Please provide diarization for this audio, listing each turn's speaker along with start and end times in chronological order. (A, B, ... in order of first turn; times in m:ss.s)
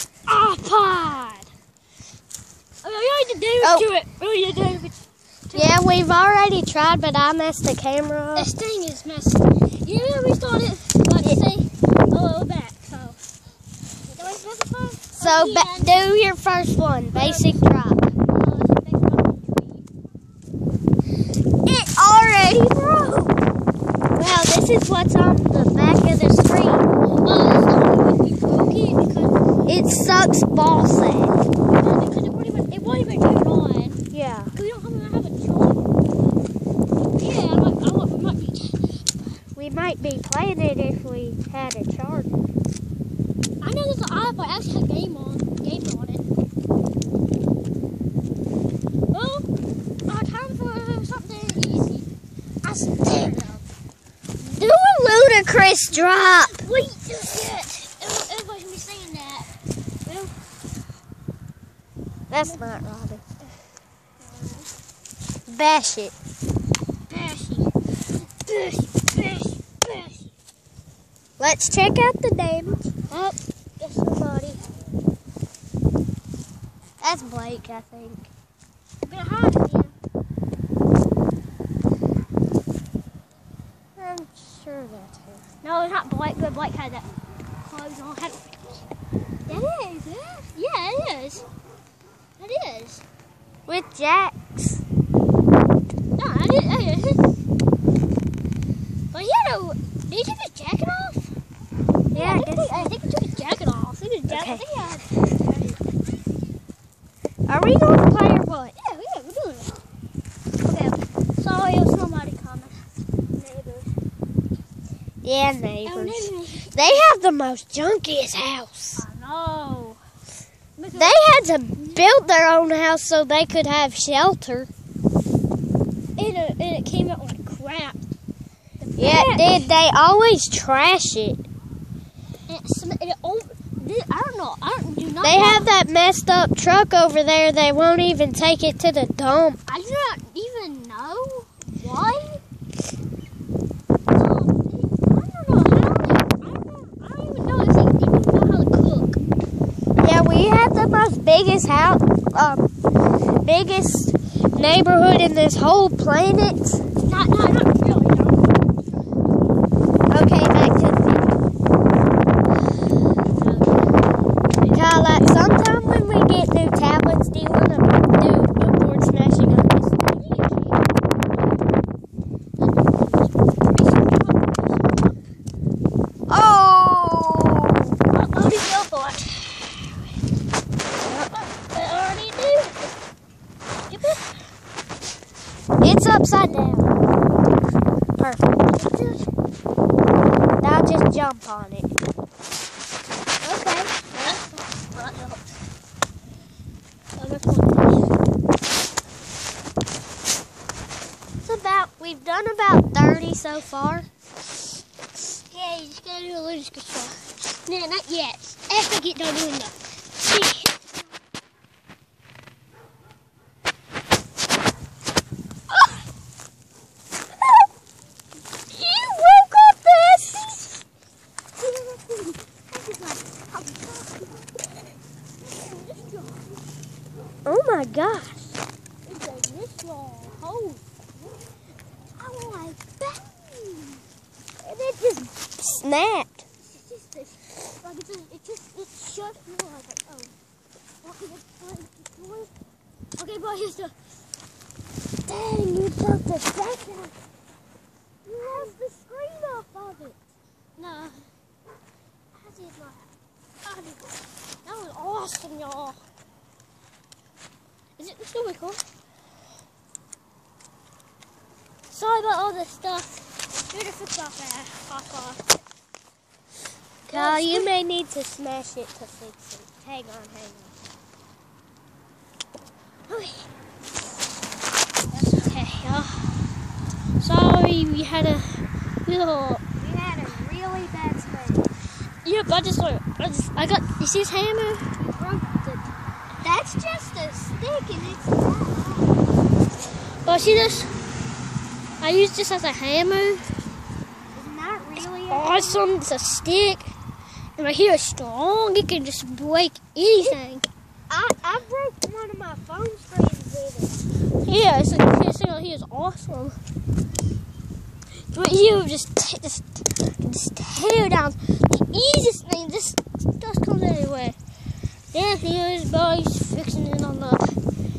0:00.3-0:01.5 A
0:02.8-0:05.8 A
0:03.6-0:03.9 B
0:05.5-0:08.5 B
0:08.4-0:13.2 A
0:14.1-0:16.0 A
0:15.1-0:18.1 B
0:17.1-0:17.6 A
0:18.2-0:19.8 A
0:21.7-0:23.4 B
0:24.2-0:26.9 B
0:27.2-0:29.4 A
0:29.7-0:31.4 B
0:31.7-0:34.0 A
0:34.1-0:34.5 B
0:34.5-0:35.9 A
0:37.2-0:39.1 A
0:39.6-0:42.3 B
0:43.6-0:46.2 A
0:49.1-0:49.5 A
0:50.1-0:52.1 A
0:52.6-0:53.7 A
0:54.4-0:56.6 B
0:55.9-0:59.5 A
1:00.1-1:00.3 A
1:02.3-1:03.2 B
1:04.2-1:04.7 A
1:05.5-1:06.1 B
1:07.1-1:07.7 A
1:08.4-1:10.3 A
1:11.4-1:12.9 B
1:13.1-1:14.6 A
1:17.0-1:18.3 B
1:19.0-1:20.0 A
1:24.0-1:25.4 B
1:25.6-1:27.1 A
1:27.6-1:28.9 A
1:29.5-1:31.5 A
1:32.4-1:33.0 A
1:33.7-1:34.8 B
1:36.2-1:37.3 A
1:39.1-1:41.3 A
1:42.1-1:45.8 A
1:42.1-1:42.9 B
1:44.3-1:44.6 B
1:47.5-1:48.8 B
1:48.8-1:49.8 A
1:50.6-1:53.9 A
1:55.2-1:59.0 B
1:55.8-1:57.1 A
1:59.0-2:00.0 A
2:00.8-2:01.2 A
2:00.9-2:04.7 B
2:01.8-2:02.1 A
2:06.2-2:08.0 A
2:08.8-2:09.7 A
2:09.0-2:11.4 B
2:12.5-2:15.7 A
2:15.2-2:19.6 B
2:19.7-2:22.4 A
2:24.1-2:29.2 A
2:30.0-2:32.7 B
2:33.4-2:36.8 B
2:37.0-2:38.8 A
2:40.1-2:41.3 B
2:43.2-2:44.0 A
2:44.6-2:45.3 A
2:44.7-2:50.2 B
2:50.1-2:50.8 A
2:52.6-2:55.2 A
2:56.3-2:58.0 B
2:58.1-3:00.0 A
3:01.3-3:02.9 A
3:03.9-3:04.3 A
3:05.8-3:06.9 B
3:08.2-3:08.7 B
3:08.7-3:09.3 A
3:10.6-3:11.9 B
3:13.4-3:13.9 B
3:13.9-3:15.5 A
3:17.2-3:18.1 A
3:21.4-3:24.1 B
3:25.4-3:31.0 A
3:38.7-3:40.8 B
3:41.6-3:44.4 A
3:45.4-3:46.6 A
3:47.4-3:48.6 B
3:49.0-3:50.8 A
3:52.2-3:54.0 A
3:54.6-3:55.3 A
3:55.6-3:56.4 B
3:56.6-4:00.4 A
4:01.0-4:02.5 A
4:03.2-4:04.0 A
4:05.3-4:07.1 B
4:08.3-4:10.2 B
4:10.8-4:11.3 A
4:12.3-4:13.1 A
4:13.6-4:16.0 A
4:18.0-4:18.8 A
4:21.9-4:25.4 A
4:27.1-4:27.7 A
4:27.1-4:30.7 B
4:33.1-4:33.5 A
4:35.1-4:36.5 A
4:37.2-4:39.6 A
4:39.8-4:41.7 B
4:42.2-4:44.9 A
4:45.2-4:45.9 B
4:46.4-4:49.2 B
4:50.2-4:51.0 A
4:52.0-4:53.5 A
4:54.3-4:55.9 B
4:55.3-4:57.0 A
4:57.6-5:00.7 A
5:01.1-5:04.0 B
5:04.4-5:06.6 A
5:08.3-5:14.4 A
5:15.1-5:17.6 A